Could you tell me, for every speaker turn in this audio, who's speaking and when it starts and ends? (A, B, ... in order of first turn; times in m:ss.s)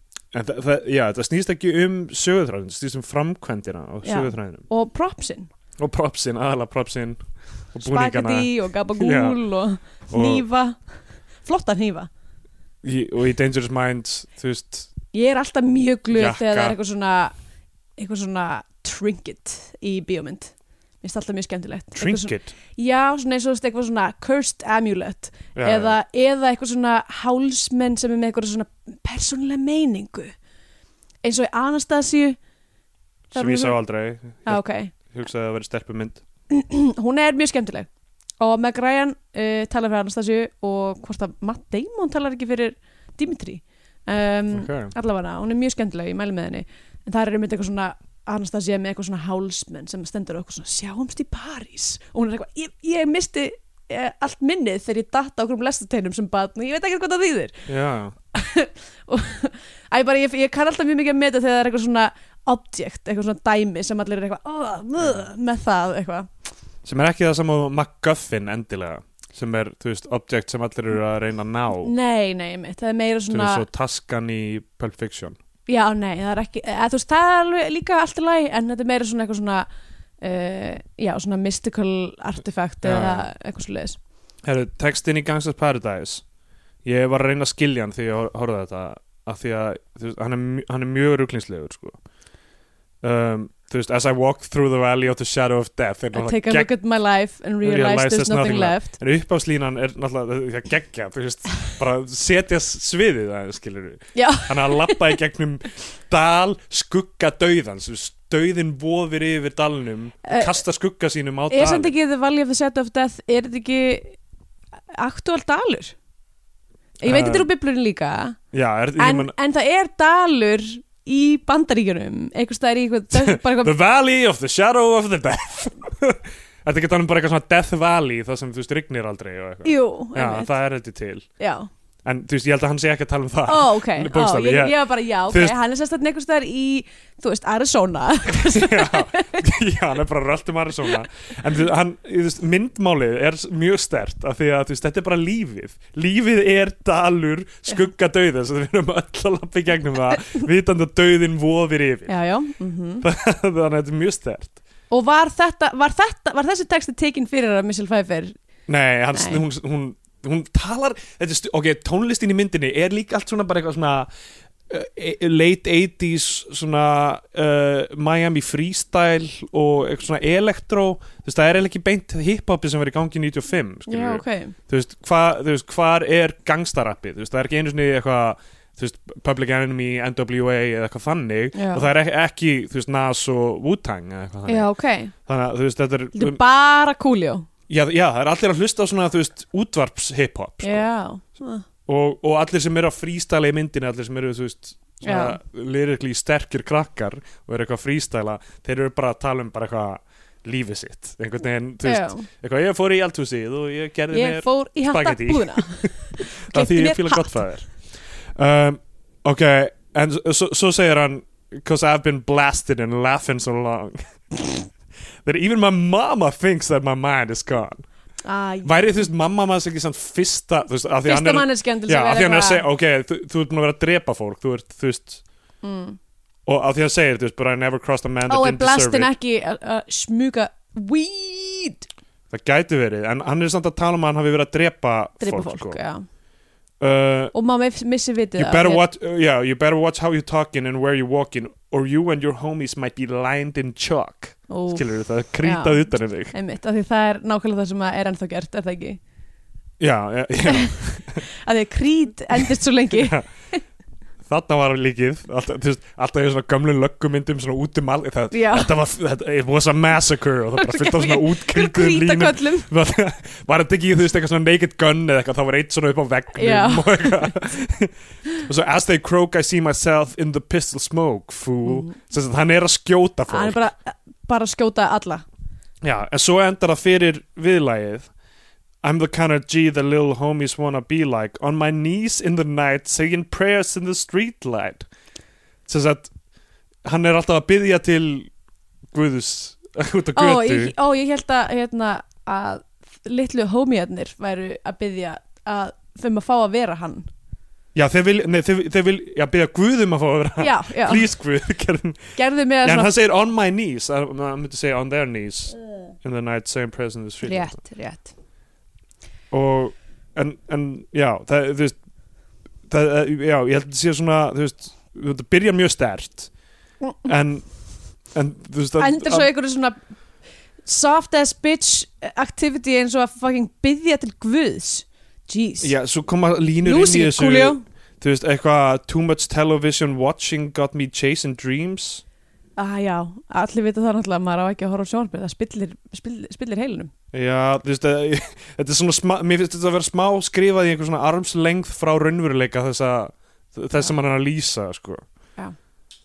0:00.3-0:04.7 A
0:04.0-0:05.5 B
0:05.8-0:07.2 A
0:07.7-0:09.4 A
0:07.8-0:12.1 B
0:10.1-0:10.4 A
0:12.8-0:14.9 A
0:15.1-0:17.3 B
0:16.1-0:16.8 A
0:18.0-0:30.4 B
0:22.0-0:22.5 A
0:25.6-0:26.0 A
0:31.2-0:32.4 B
0:33.3-0:33.8 B
0:33.4-0:36.2 A
0:34.4-0:34.9 B
0:36.5-0:37.9 B
0:38.4-0:57.6 B
0:44.5-0:44.9 A
0:57.7-0:58.2 A
0:58.3-1:06.3 B
1:06.8-1:11.9 A
1:11.8-1:13.6 B
1:13.3-1:15.4 A
1:15.7-1:19.7 B
1:20.2-1:24.0 B
1:22.8-1:23.3 A
1:24.4-1:26.2 A
1:26.8-1:32.0 A
1:33.0-1:36.7 A
1:36.1-1:39.0 B
1:37.6-1:51.9 A
1:44.1-1:45.1 B
1:50.2-1:50.6 B
1:51.5-1:54.2 B
1:55.0-1:56.0 B
1:57.0-1:58.4 B
1:57.0-1:57.5 A
1:58.5-1:59.3 A
1:59.0-2:03.7 B
2:03.1-2:11.3 A
2:09.6-2:10.5 B
2:11.4-2:11.7 B
2:12.0-2:15.6 A
2:13.5-2:19.4 B
2:18.3-2:32.2 A
2:32.1-2:33.1 B
2:33.0-2:34.6 A
2:34.9-2:38.3 B
2:38.7-2:44.1 A
2:39.1-2:39.4 B
2:44.7-3:06.4 A
2:53.9-2:54.6 B
3:01.6-3:01.9 B
3:04.5-3:05.1 B
3:06.2-3:07.5 B
3:07.7-3:10.9 A
3:10.6-3:11.6 B
3:11.9-3:27.8 A
3:15.0-3:15.4 B
3:21.8-3:22.3 B
3:24.1-3:27.4 B
3:28.4-3:34.7 A
3:35.2-3:37.8 A
3:38.2-3:38.9 B
3:38.6-3:45.2 A
3:41.0-3:42.6 B
3:45.6-3:46.0 B
3:46.5-3:49.1 A
3:48.3-3:51.9 B
3:52.3-3:55.8 A
3:55.2-3:56.0 B
3:56.8-3:57.3 A
3:57.3-3:58.8 B
3:58.4-4:06.3 A
4:04.5-4:04.8 B
4:05.4-4:09.0 B
4:09.8-4:11.2 A
4:10.5-4:13.6 B
4:12.9-4:13.2 A
4:14.3-4:33.6 A
4:18.3-4:18.7 B
4:20.6-4:22.7 B
4:26.4-4:27.3 B
4:31.6-4:32.0 B
4:33.3-4:35.2 B
4:35.8-4:38.1 A
4:38.8-4:44.9 A
4:45.7-4:46.1 A
4:46.8-4:48.3 A
4:48.9-4:50.7 A
4:50.2-4:57.1 B
4:57.7-5:07.6 A
5:00.4-5:01.1 B
5:02.2-5:02.9 B
5:07.2-5:08.1 B
5:09.3-5:11.8 A
5:12.7-5:16.3 A
5:16.8-5:17.1 B
5:17.0-5:17.5 A
5:18.1-5:19.3 A
5:18.8-5:19.8 B
5:20.6-5:25.8 B
5:25.6-5:32.0 A
5:26.6-5:27.6 B
5:32.6-5:36.9 B
5:37.1-5:45.0 A